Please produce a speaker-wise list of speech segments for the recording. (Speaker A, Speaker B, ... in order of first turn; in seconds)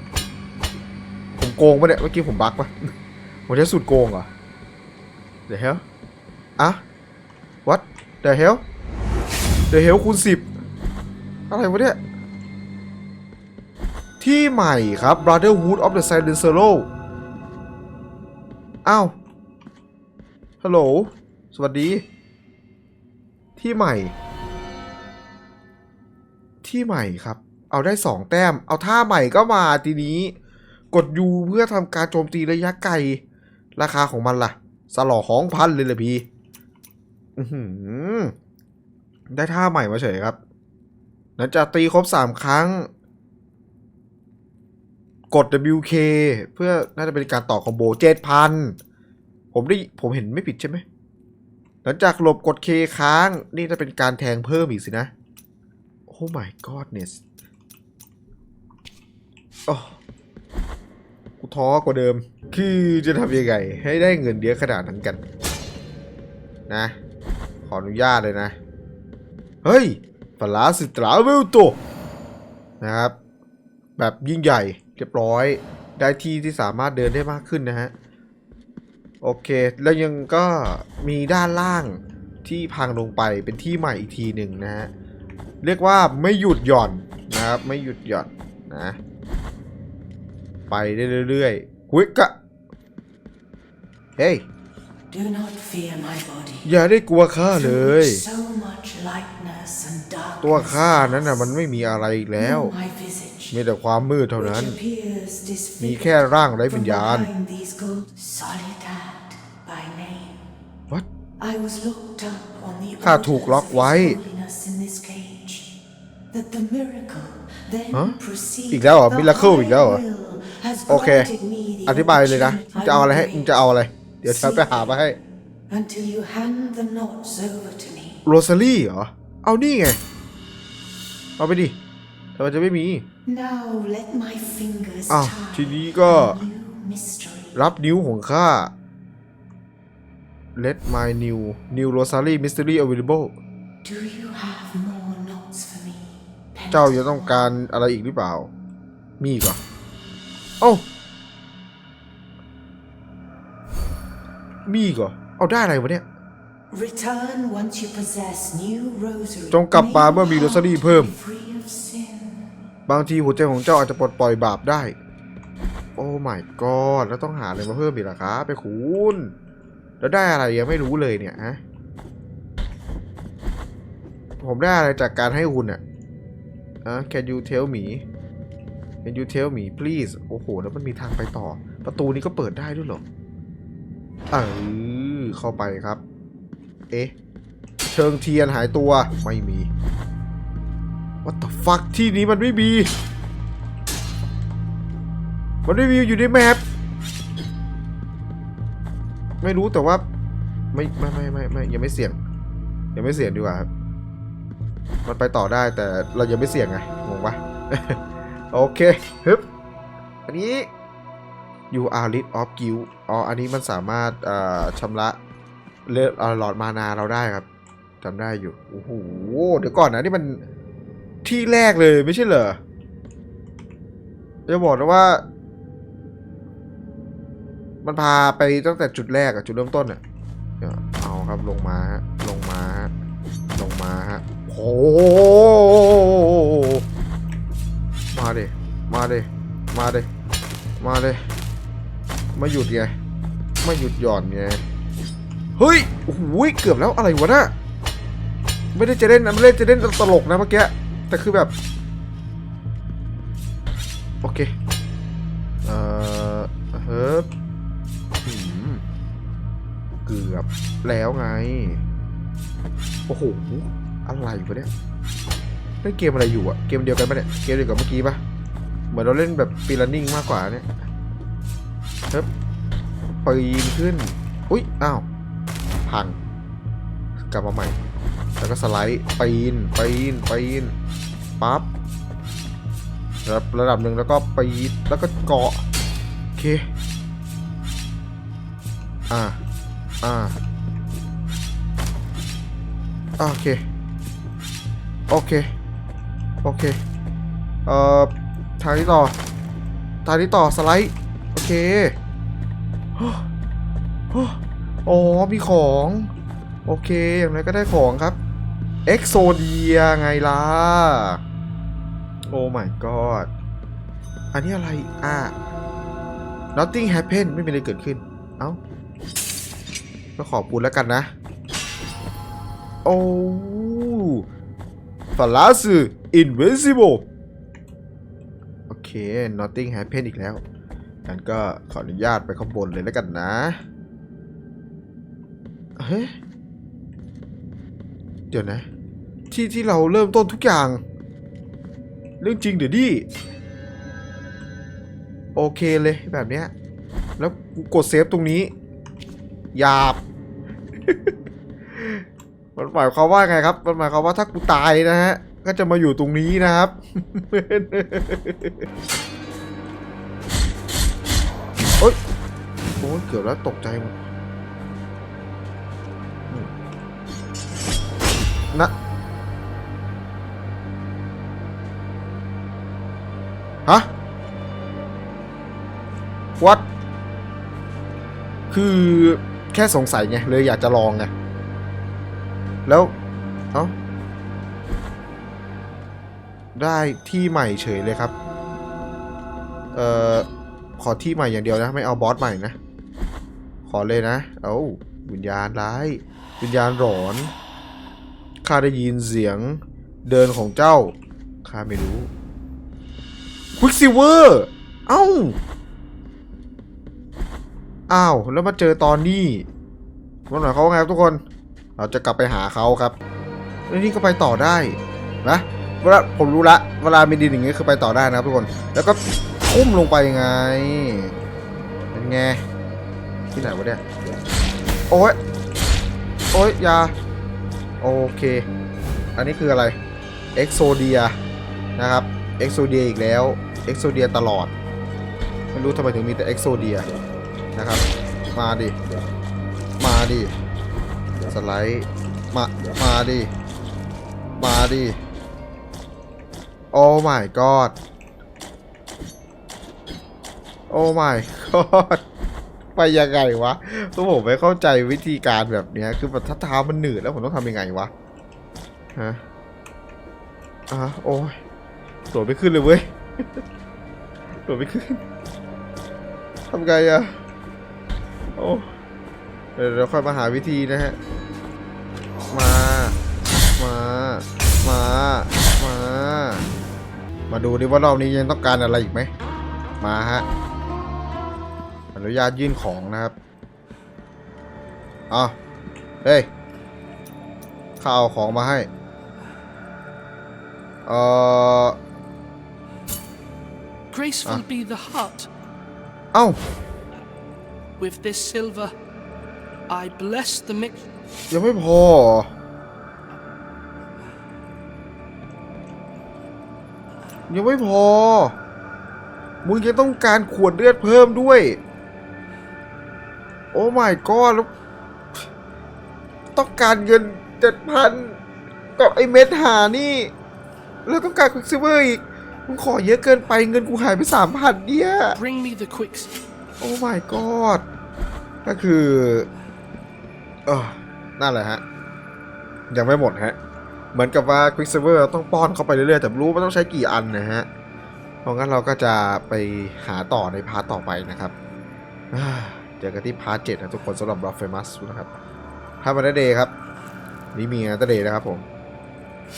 Speaker A: 1.4-2.9, 3.5-4.3, 5.5-5.8, 7.6-8.6, 9.7-10.5, 11.5-12.0, 14.2-16.9, 18.9-19.1, 20.6-22.0, 23.6-24.1, 26.6-30.4, 30.9-33.2, 33.8-36.2, 37.4-38.3, 39.3-40.4, 41.4-42.9, 45.3-48.8, 49.5-50.8, 51.8-55.1, 56.1-57.2, 59.7-59.9, 61.4-65.2, 66.7-66.9, 67.6-68.5, 69.6-71.8, 72.8-73.1, 74.0-77.9, 79.2-84.9, 85.6-89.0, 90.7-92.3, 94.2-94.4, 96.6-98.2, 100.4-102.7, 103.5-104.8, 105.8-107.3, 113.0-114.2, 118.7-120.0, 120.9-121.3, 121.8-125.2, 128.2-130.0, 131.4-131.8, 132.4-133.1, 135.1-136.4, 137.5-138.7, 140.6-143.3, 146.7-148.5, 149.2-149.6, 154.7-156.0, 159.5-161.1, 162.9-164.9, 166.0-169.3, 170.0-171.6, 174.4-175.8, 176.8-178.0, 179.0-183.0, 184.3-186.0, 187.9-189.7, 191.2-192.9, 195.7-196.6, 199.4-200.0, 200.7-202.2, 202.9-203.7, 205.0-209.4, 210.3-210.7, 211.7-215.2, 215.9-217.4, 218.0-220.4, 221.2-222.6, 224.5-225.2, 227.8-230.0, 230.6-232.9, 233.6-236.8, 238.1-240.1, 240.8-241.2, 242.3-242.9, 243.6-244.6, 245.6-247.5, 248.7-251.5, 254.2-254.5, 255.6-257.3, 258.2-258.8, 260.1-261.8, 263.1-264.7, 265.8-268.2, 268.9-270.7, 273.2-275.0, 275.9-276.2, 277.3-277.8, 278.4-280.7, 281.4-281.7, 283.2-285.6, 286.4-286.6, 289.1-289.4, 290.0-290.4, 293.2-293.6, 295.1-295.5, 296.4-296.8, 297.6-299.1, 300.0-301.9, 303.0-303.2, 304.1-306.1, 306.6-308.2, 308.9-311.2, 312.3-313.3, 314.3-315.4, 316.5-318.6, 320.2-321.1, 322.9-324.2, 325.2-327.1, 328.7-330.4, 331.1-333.6, 335.8-336.1, 338.3-338.6, 339.3-340.8, 342.2-343.1, 345.4-346.5, 347.2-348.5, 349.5-350.0, 350.8-351.1, 351.7-352.0, 352.6-358.7, 362.8-363.9, 368.1-368.7, 376.4-376.6, 378.5-381.1, 382.6-382.9, 386.5-388.1, 389.7-390.3, 390.8-392.6, 393.7-397.3, 398.4-402.1, 403.6-405.4, 407.9-409.5, 410.3-411.2, 411.8-413.0, 413.7-421.2, 421.9-422.4, 423.4-423.8, 424.9-425.2, 426.3-426.9, 427.8-428.5, 429.1-429.8, 430.4-431.2, 431.8-434.5, 435.5-436.9, 437.5-437.8, 438.4-438.7, 439.8-440.3, 441.3-443.3, 444.4-445.0, 446.7-447.8, 450.7-452.0, 452.8-457.9, 458.9-459.2, 460.7-461.4, 462.1-463.4, 464.4-465.0, 466.5-467.2, 468.4-468.7, 469.6-470.9, 472.3-473.0, 473.6-476.4, 477.3-479.1, 479.8-480.2, 481.9-483.1, 485.1-485.4, 486.0-486.3, 487.8-488.7, 490.9-491.8, 496.1-496.4, 501.3-502.3, 507.3-508.4, 509.4-511.6, 513.5-514.5, 516.4-518.2, 518.8-520.1, 520.9-525.2, 526.6-527.6, 528.4-529.3, 530.5-531.6, 532.7-533.4, 533.9-537.5, 538.2-541.3, 542.1-545.1, 545.8-546.5, 547.3-548.4
Speaker B: 95.1-96.7, 97.5-101.6, 102.4-103.6, 104.4-110.4, 111.4-115.7, 116.3-123.6, 124.2-125.0, 125.7-128.2, 133.2-137.7, 143.8-147.5, 156.7-162.5
Speaker C: 493.9-495.3, 497.8-498.7, 499.7-500.7, 525.1-526.1